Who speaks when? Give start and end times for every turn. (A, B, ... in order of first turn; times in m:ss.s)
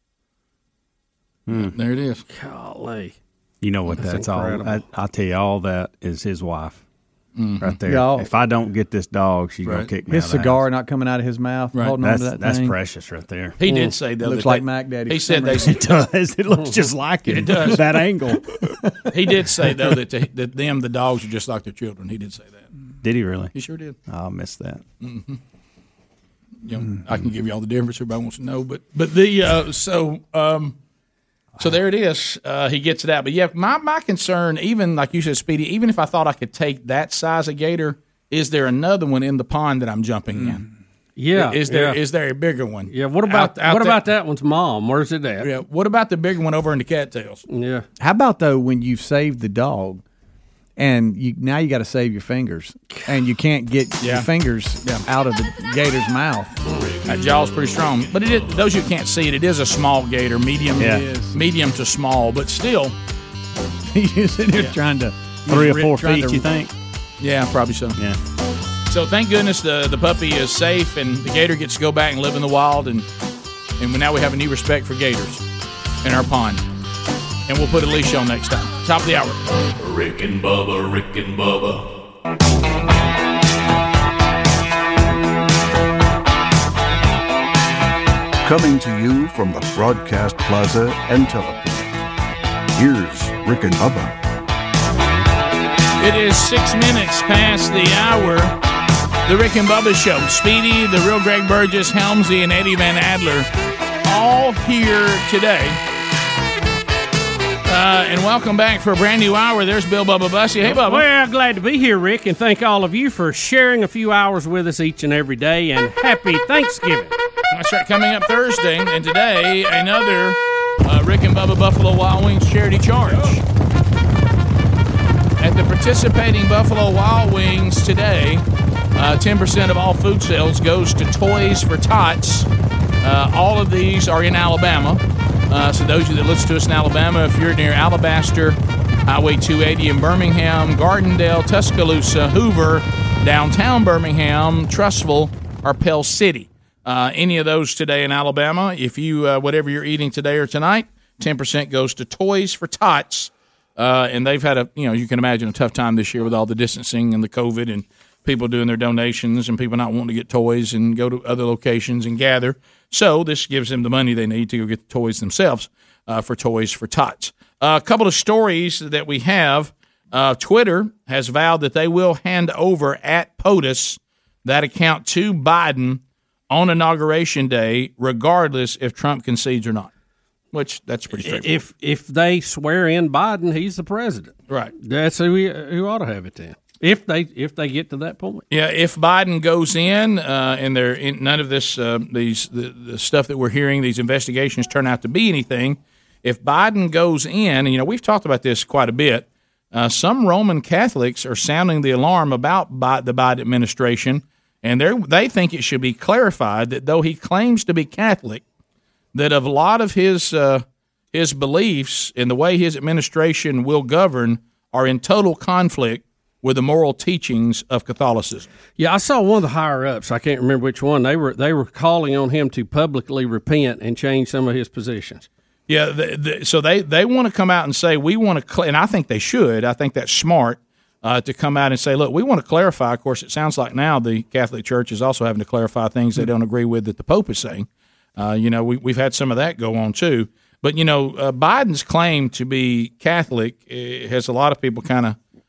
0:01.5-0:01.7 A
0:01.5-0:02.2 B
0:02.3-0:03.2 C
0:03.6-0:06.8 A
0:03.9-0:04.8 C
0:07.4-0:07.8 B
0:07.6-0:10.6 A
0:07.9-0:08.3 D
0:10.0-0:12.8 D
0:12.0-0:13.6 A
0:13.6-0:15.8 B
0:13.7-0:13.9 C
0:14.2-0:15.7 D
0:15.6-0:18.6 A
0:17.3-0:17.8 B
0:18.8-0:19.1 D
0:19.1-0:22.7 B
0:23.0-0:23.5 A
0:23.5-0:24.0 B
0:24.1-0:24.8 A
0:25.0-0:25.4 B
0:26.6-0:30.7 B
0:31.6-0:40.6 B
0:41.2-0:42.0 C
0:41.3-0:44.0 B
0:42.9-0:45.5 C
0:45.4-0:47.4 B
0:47.5-0:47.8 C
0:48.0-0:50.0 D
0:50.8-0:56.5 D
0:54.0-0:54.3 B
0:57.0-1:02.9 B
1:00.8-1:01.0 A
1:00.8-1:01.4 D
1:03.9-1:06.5 D
1:05.5-1:06.7 A
1:07.2-1:08.0 B
1:08.9-1:13.0 B
1:13.8-1:15.4 B
1:16.0-1:16.6 B
1:17.5-1:19.4 B
1:19.8-1:21.9 E
1:28.4-1:32.0 F
1:32.7-1:34.1 F
1:36.0-1:38.5 B
1:39.2-1:43.5 B
1:44.0-1:45.8 B
1:47.6-1:51.0 B
1:50.6-1:57.2 C
1:57.5-2:03.4 B
2:05.4-2:08.4 B
2:09.0-2:12.5 B
2:13.0-2:59.9 B
3:00.5-3:01.5 B
3:01.2-3:08.4 C
3:08.5-3:28.4 B
3:29.1-3:38.5 B
3:38.8-3:45.3 C
3:45.7-4:05.2 B